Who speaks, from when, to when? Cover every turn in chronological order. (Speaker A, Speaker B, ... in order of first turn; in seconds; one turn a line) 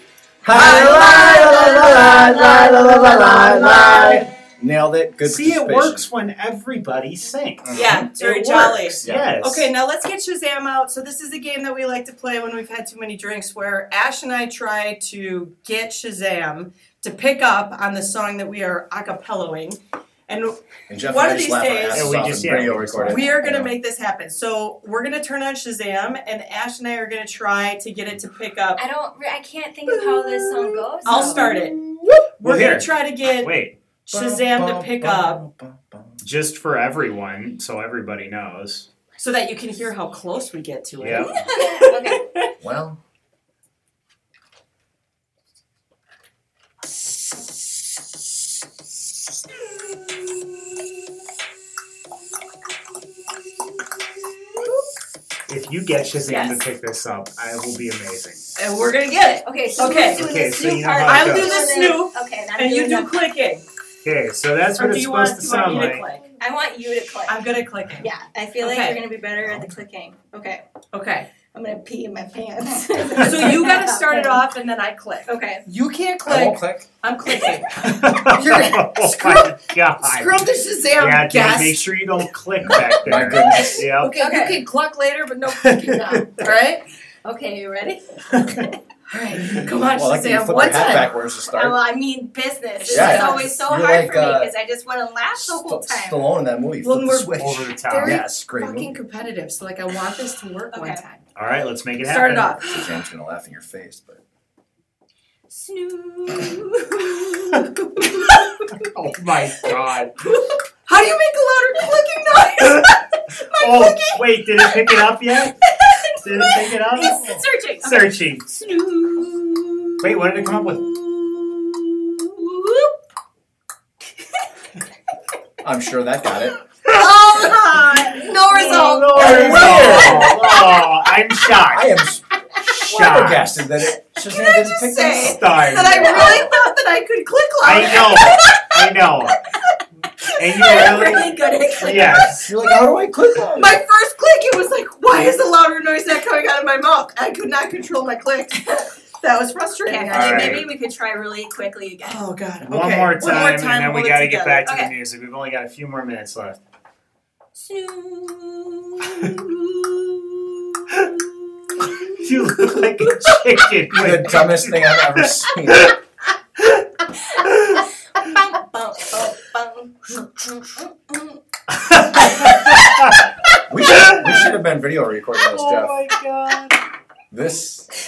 Speaker A: 0.4-6.1
Speaker B: 0.5-4.2
Speaker C: 0.8-2.2
Speaker D: 5.2-9.7
Speaker A: 7.6-8.1
Speaker B: 7.7-22.2
Speaker A: 9.0-9.3
Speaker A: 20.9-23.8
Speaker D: 21.9-23.3
Speaker B: 23.1-28.8
Speaker C: 28.8-31.6
Speaker B: 31.0-33.5
Speaker A: 31.4-31.7
Speaker D: 32.4-33.8
Speaker B: 34.1-35.4
Speaker A: 34.1-36.2
Speaker D: 36.2-38.9
Speaker B: 39.2-42.5
Speaker D: 41.0-41.5
Speaker C: 41.3-42.2
Speaker A: 42.6-43.0
Speaker B: 54.6-54.9
Speaker D: 55.5-58.4
Speaker B: 56.3-56.6
Speaker B: 58.6-60.4
Speaker C: 59.4-63.2
Speaker D: 60.1-61.6
Speaker B: 61.0-63.6
Speaker D: 64.0-66.0
Speaker B: 64.8-66.3
Speaker C: 66.4-70.7
Speaker B: 67.3-68.1
Speaker B: 68.6-69.0
Speaker B: 70.9-71.3
Speaker C: 71.5-74.5
Speaker B: 73.2-81.9
Speaker C: 75.3-75.7
Speaker A: 76.2-76.9
Speaker D: 77.8-84.2
Speaker A: 82.6-83.9
Speaker B: 83.5-86.8
Speaker C: 84.2-84.6
Speaker D: 85.5-86.5
Speaker C: 87.2-88.7
Speaker D: 88.3-88.7
Speaker B: 89.1-91.1
Speaker A: 89.7-91.8
Speaker C: 91.5-96.2
Speaker B: 92.8-93.6
Speaker A: 92.9-94.5
Speaker A: 95.3-99.0
Speaker B: 96.8-101.2
Speaker D: 97.4-98.3
Speaker C: 100.7-101.0
Speaker D: 101.4-102.6
Speaker B: 102.0-102.8
Speaker A: 102.6-104.2
Speaker C: 105.5-108.6
Speaker B: 107.6-108.8
Speaker D: 108.7-110.2
Speaker B: 110.3-114.0
Speaker D: 112.6-112.9
Speaker D: 113.5-118.6
Speaker C: 113.7-114.2
Speaker C: 115.7-123.0
Speaker D: 120.0-120.9
Speaker A: 125.6-126.6
Speaker C: 126.9-130.5
Speaker B: 126.9-130.6
Speaker D: 128.5-131.9
Speaker A: 129.1-130.4
Speaker A: 131.7-132.3
Speaker D: 132.6-133.7
Speaker A: 132.8-136.5
Speaker B: 134.3-138.7
Speaker D: 135.2-136.5
Speaker C: 136.1-136.5
Speaker D: 137.6-139.4
Speaker C: 140.3-142.3
Speaker D: 140.4-142.5
Speaker B: 140.7-141.2
Speaker A: 142.2-143.8
Speaker B: 143.5-150.7
Speaker C: 148.6-148.9
Speaker C: 149.8-152.2
Speaker D: 150.1-150.7
Speaker B: 152.1-154.7
Speaker D: 152.6-156.6
Speaker C: 154.7-154.9
Speaker C: 157.6-161.2
Speaker D: 160.9-161.2
Speaker D: 162.1-165.9
Speaker A: 163.9-165.9
Speaker D: 166.6-166.8
Speaker D: 167.4-167.8
Speaker C: 168.1-171.4
Speaker D: 171.7-173.3
Speaker C: 172.1-172.9
Speaker A: 173.7-176.0
Speaker D: 173.8-174.5
Speaker D: 175.5-176.8
Speaker A: 177.3-177.9